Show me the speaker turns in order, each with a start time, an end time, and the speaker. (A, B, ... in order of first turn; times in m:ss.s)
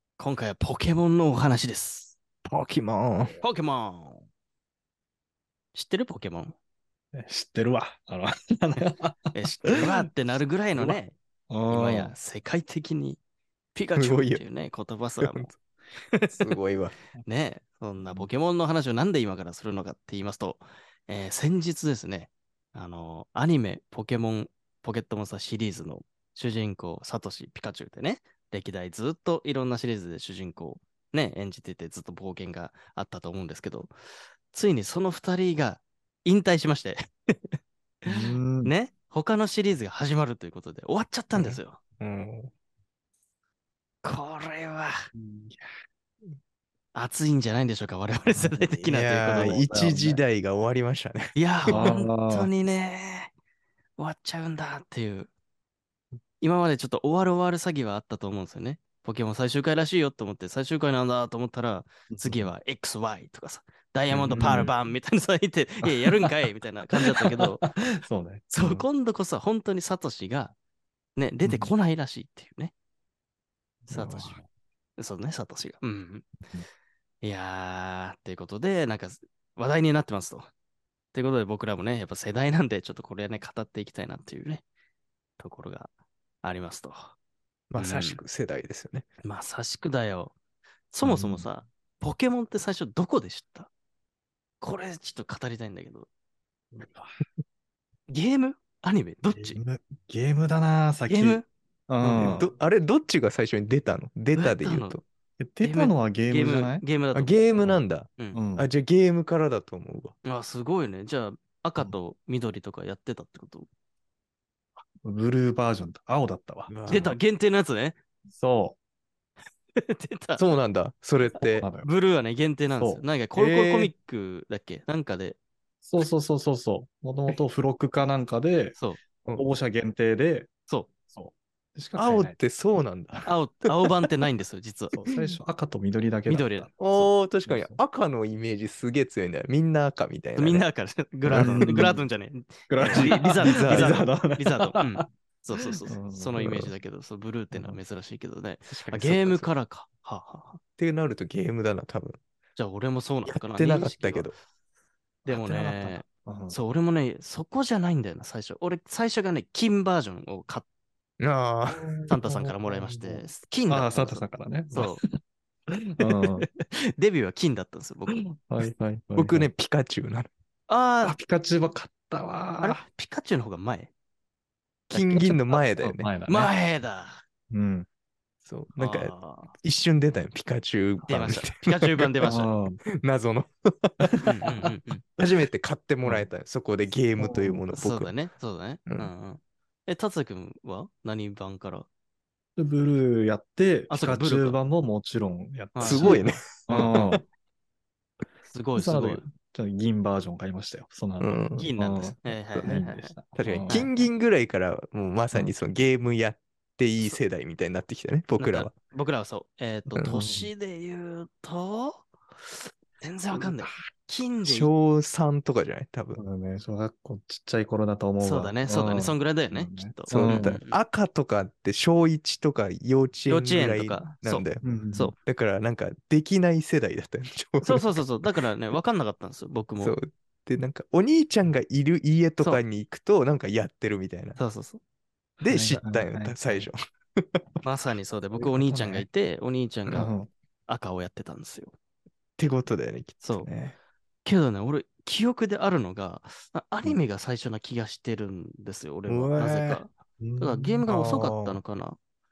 0:00.2-0:02.2 A
0:02.4-0:03.4 B
0:03.4-0:04.2 A
0:05.7-0:06.6 A
0:07.1-0:09.2 C
0:09.3-0:11.2 A
0:10.7-0:12.1 C
0:11.7-0:13.2 A
0:13.7-0:15.6 A
0:13.9-0:14.4 B
0:15.2-0:15.5 B
0:16.3-0:16.9 B
0:17.2-0:33.9 A
0:34.5-0:37.6 A
0:38.0-0:38.7 C
0:38.6-0:41.8 A
0:41.3-0:42.5 B
0:44.0-0:44.9 A
0:45.1-0:45.7 C
0:46.9-0:49.7 A
0:48.3-0:48.7 C
0:48.8-0:51.9 B
0:49.4-0:50.2 C
0:51.3-0:53.3 A
0:51.7-0:52.5 C
0:54.0-0:55.3 A
0:56.4-1:07.6 A
1:02.1-1:02.5 C
1:04.1-1:04.8 C
1:04.3-1:04.7 B
1:05.8-1:06.4 C
1:07.6-1:08.8 C
1:08.5-1:10.5 A
1:11.2-1:12.7 A
1:11.4-1:11.7 C
1:13.8-1:14.4 C
1:13.9-1:14.4 A
1:15.0-1:16.3 A
1:17.2-1:20.5 A
1:21.1-1:24.6 A
1:25.4-1:25.9 A
1:26.4-1:27.2 A
1:27.7-1:29.0 B
1:27.8-1:28.2 A
1:29.2-1:30.3 A
1:30.9-1:33.7 A
1:31.0-1:31.5 C
1:34.6-1:36.1 A
1:36.7-1:37.1 C
1:38.1-1:39.6 A
1:39.3-1:42.5 C
1:41.1-1:41.4 A
1:42.0-1:42.5 A
1:42.0-1:45.0 B
1:44.3-1:45.0 A
1:45.4-1:46.8 C
1:45.6-1:47.5 A
1:47.1-1:50.2 B
1:48.3-1:48.7 C
1:50.2-1:53.7 A
1:55.0-1:57.1 C
1:56.7-1:57.2 B
1:56.9-1:58.0 A
1:58.3-1:58.8 C
1:59.8-2:00.4 A
2:00.4-2:01.7 B
2:01.4-2:01.9 C
2:01.8-2:05.4 A
2:02.7-2:03.1 C
2:03.4-2:03.9 B
2:05.8-2:08.8 C
2:09.3-2:10.5 C
2:11.1-2:12.3 C
2:12.0-2:14.1 B
2:13.2-2:15.0 A
2:14.9-2:16.7 C
2:15.1-2:15.4 B
2:16.2-2:17.1 A
2:16.8-2:20.6 B
2:17.4-2:17.8 C
2:20.3-2:30.6 A
2:21.3-2:21.9 B
2:21.3-2:22.0 C
2:22.7-2:25.0 C
2:22.9-2:24.0 B
2:25.9-2:26.7 C
2:27.5-2:27.8 C
2:28.7-2:29.5 B
2:30.8-2:32.2 B
2:32.6-2:34.3 A
2:33.2-2:34.3 B
2:35.2-2:40.6 A
2:35.3-2:36.6 C
2:35.3-2:35.8 B
2:41.2-2:42.2 B
2:41.7-2:45.1 C
2:42.1-2:45.0 A
2:45.7-2:46.4 C
2:46.0-2:48.2 A
2:48.2-2:49.5 C
2:49.2-2:50.3 B
2:50.7-2:51.2 A
2:51.0-2:52.8 C
2:52.6-2:53.9 A
2:54.9-2:55.6 A
2:54.9-2:56.1 B
2:55.8-2:56.5 C
2:56.3-2:57.2 A
2:57.5-2:57.9 C
2:58.4-3:02.3 B
2:58.7-2:59.5 A
3:01.0-3:02.5 A
3:02.2-3:02.8 C
3:03.0-3:04.5 B
3:04.1-3:04.6 C
3:04.2-3:05.0 A
3:05.2-3:08.1 B
3:06.0-3:06.3 C
3:07.2-3:07.6 C
3:07.7-3:11.9 A
3:08.8-3:09.1 B
3:12.6-3:17.2 C
3:13.9-3:14.6 A
3:15.7-3:17.2 A
3:15.8-3:17.1 B
3:18.4-3:19.2 A
3:18.7-3:23.9 C
3:21.2-3:21.7 B
3:21.6-3:23.2 A
3:22.5-3:22.8 B
3:23.3-3:28.7 B
3:23.7-3:24.0 A
3:28.4-3:34.7 A
3:29.9-3:30.2 B
3:30.0-3:30.5 C
3:33.4-3:33.8 C
3:34.4-3:36.2 B
3:36.2-3:40.6 C
3:38.2-3:40.8 A
3:40.1-3:44.6 B
3:43.3-3:45.1 A
3:44.6-3:45.1 C
3:45.2-3:48.2 B
3:47.6-3:50.0 A
3:49.8-3:54.4 B
3:54.4-3:54.8 A
3:55.4-3:57.4 B
3:55.4-3:56.7 C
3:57.6-4:00.1 A
3:58.3-3:59.1 C
3:59.9-4:00.3 C
4:00.7-4:01.7 A
4:02.4-4:03.8 B
4:03.2-4:03.5 A
4:04.2-4:12.0 A
4:09.1-4:09.8 B
4:10.2-4:10.8 C
4:10.8-4:11.6 B